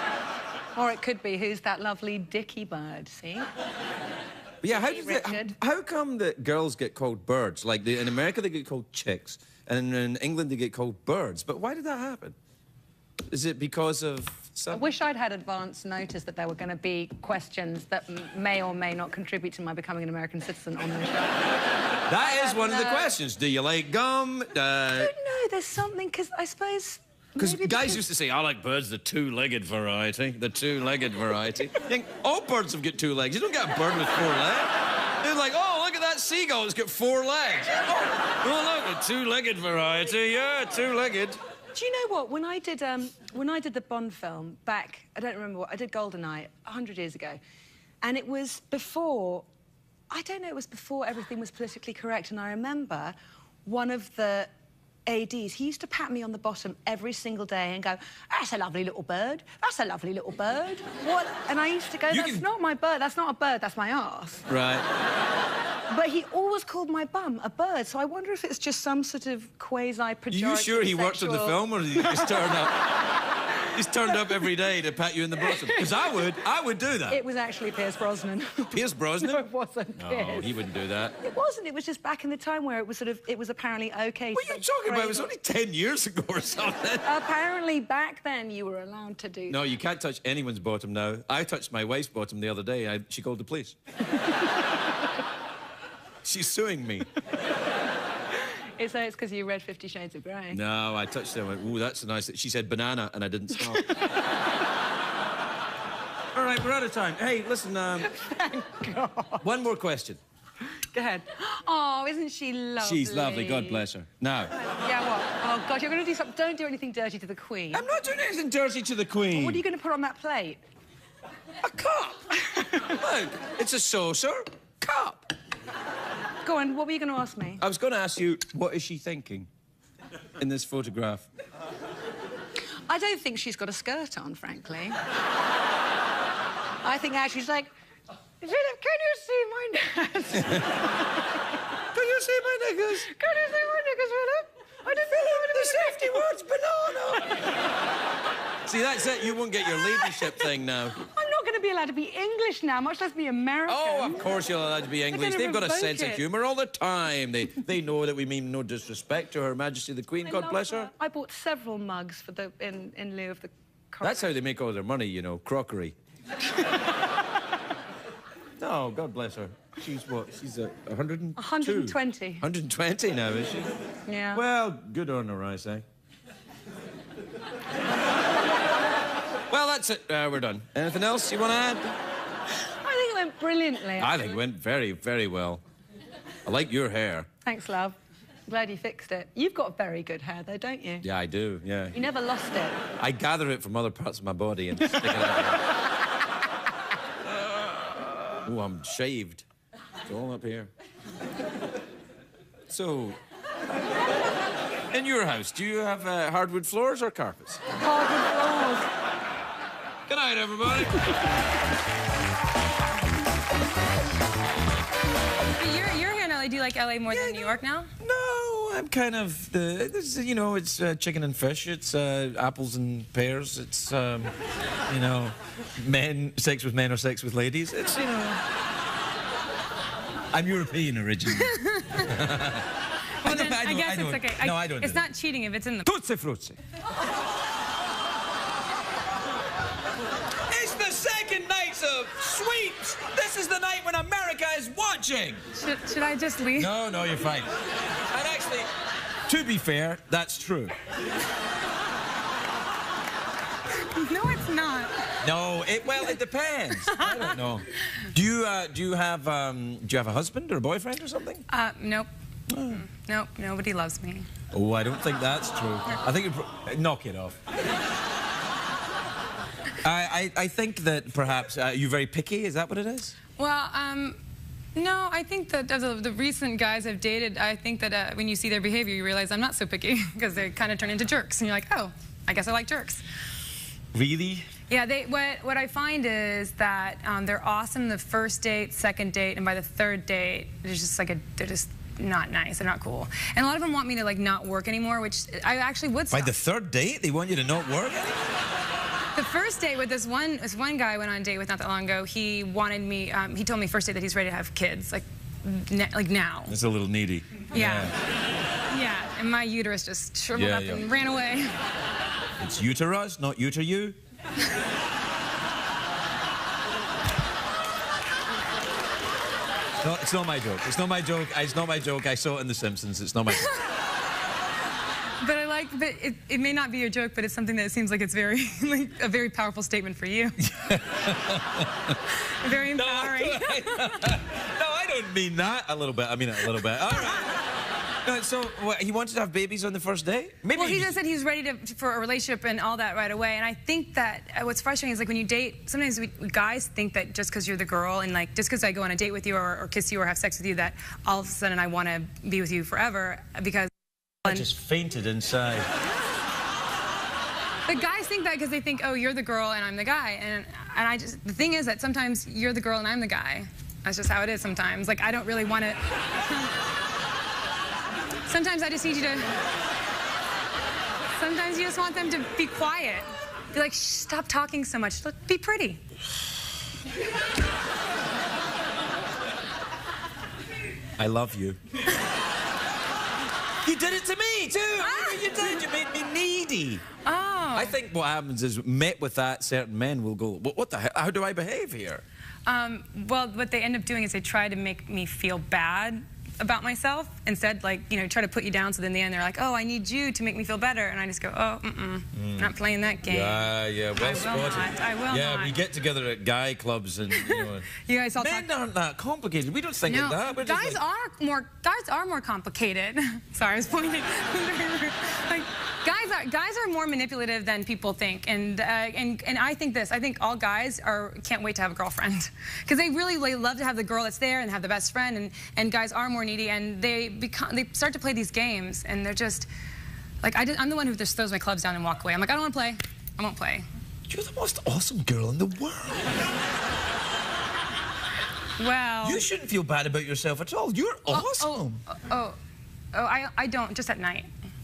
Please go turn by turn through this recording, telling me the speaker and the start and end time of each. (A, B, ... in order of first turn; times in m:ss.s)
0:00.7-0:03.5 A
0:04.6-0:12.4 B
0:04.7-0:05.6 A
0:13.3-0:14.8 B
0:14.7-0:21.5 A
0:22.1-0:25.1 B
0:22.2-0:23.2 A
0:24.9-0:28.0 A
0:27.4-0:41.4 B
0:41.7-0:47.4 A
0:48.0-0:49.5 A
0:50.1-0:54.5 A
0:55.1-1:04.4 A
1:02.1-1:02.4 B
1:04.5-1:04.8 B
1:05.9-1:12.6 A
1:10.3-1:13.0 B
1:13.6-1:17.2 B
1:15.5-1:16.3 A
1:17.1-1:20.6 A
1:18.7-1:19.4 B
1:20.0-1:21.2 B
1:21.2-1:25.3 A
1:24.3-1:27.1 B
1:27.0-1:29.6 A
1:29.5-1:33.8 B
1:36.2-1:37.1 B
1:38.8-1:40.6 A
1:40.5-1:43.9 B
1:43.7-1:44.1 A
1:46.3-1:48.1 B
1:48.0-1:49.4 A
1:49.4-1:50.2 B
1:50.9-1:53.8 A
1:52.8-1:54.5 B
1:54.6-1:57.9 A
1:57.7-1:59.6 B
1:59.3-2:00.6 A
2:01.6-2:04.5 B
2:04.8-2:05.2 A
2:06.4-2:07.6 A
2:07.6-2:09.5 B
2:10.4-2:11.3 B
2:12.9-2:15.0 A
2:16.8-2:17.7 A
2:18.4-2:21.0 A
2:20.4-2:20.6 B
2:21.9-2:23.1 B
2:23.0-2:26.4 A
2:25.1-2:27.4 B
2:27.1-2:27.5 A
2:28.6-2:31.0 B
2:29.6-2:34.3 A
2:33.7-2:40.9 B
2:35.1-2:36.2 A
2:40.2-2:44.4 A
2:44.0-2:46.0 B
2:48.6-2:53.7 B
2:51.4-2:52.4 A
2:54.1-2:54.4 A
2:54.3-2:55.8 B
2:59.5-3:02.0 B
3:02.8-3:04.3 A
3:04.0-3:05.6 B
3:06.4-3:07.3 B
3:07.4-3:11.0 A
3:11.0-3:12.0 B
3:11.9-3:12.8 A
3:13.0-3:15.6 B
3:17.4-3:19.4 B
3:20.1-3:20.7 B
3:22.7-3:23.2 B
3:24.9-3:27.6 B
3:27.7-3:28.9 A
3:30.1-3:31.1 B
3:35.6-3:37.9 C
3:37.1-3:44.3 B
3:44.9-3:48.4 B
3:50.3-3:52.7 B
3:51.4-3:52.0 C
3:53.2-3:55.9 C
3:53.2-3:55.0 B
3:55.8-3:56.6 B
4:00.5-4:05.4 B
4:05.5-4:06.7 C
4:06.6-4:07.5 B
4:08.1-4:08.7 B
4:09.3-4:10.7 B
4:14.0-4:14.9 C
4:15.2-4:21.4 B
4:16.9-4:17.3 C
4:21.5-4:22.1 C
4:22.5-4:22.8 B
4:22.7-4:24.3 C
4:24.5-4:27.4 B
4:29.8-4:33.2 B
4:33.4-4:34.2 C
4:34.8-4:43.0 C
4:43.9-4:44.5 B
4:44.7-4:56.3 C
4:56.1-4:58.2 B
4:59.1-5:06.6 C
5:06.5-5:08.0 B
5:07.5-5:08.0 C
5:08.7-5:11.5 C
5:10.3-5:10.9 B
5:12.4-5:14.0 B
5:19.8-5:23.6 B
5:25.2-5:30.4 C
5:30.4-5:32.0 B
5:32.4-5:34.2 C
5:32.5-5:37.5 B
5:36.9-5:37.3 C
5:38.0-5:41.0 B
5:40.5-5:53.7 C
5:54.2-5:55.7 B
5:57.7-6:06.5 C
6:08.3-6:09.3 C
6:11.2-6:15.8 C
6:21.0-6:21.6 B
6:23.6-6:26.8 B
6:24.8-6:25.6 C
6:27.0-6:27.8 C
6:27.5-6:32.0 B
6:32.5-6:45.6 C
6:42.1-6:42.5 B
6:43.0-6:50.8 B
6:47.1-6:48.5 C
6:49.9-7:09.5 C
7:10.2-7:13.6 C
7:14.1-7:16.1 B
7:18.6-7:19.3 C
7:19.0-7:21.8 B
7:21.1-7:22.4 C
7:22.9-7:24.3 C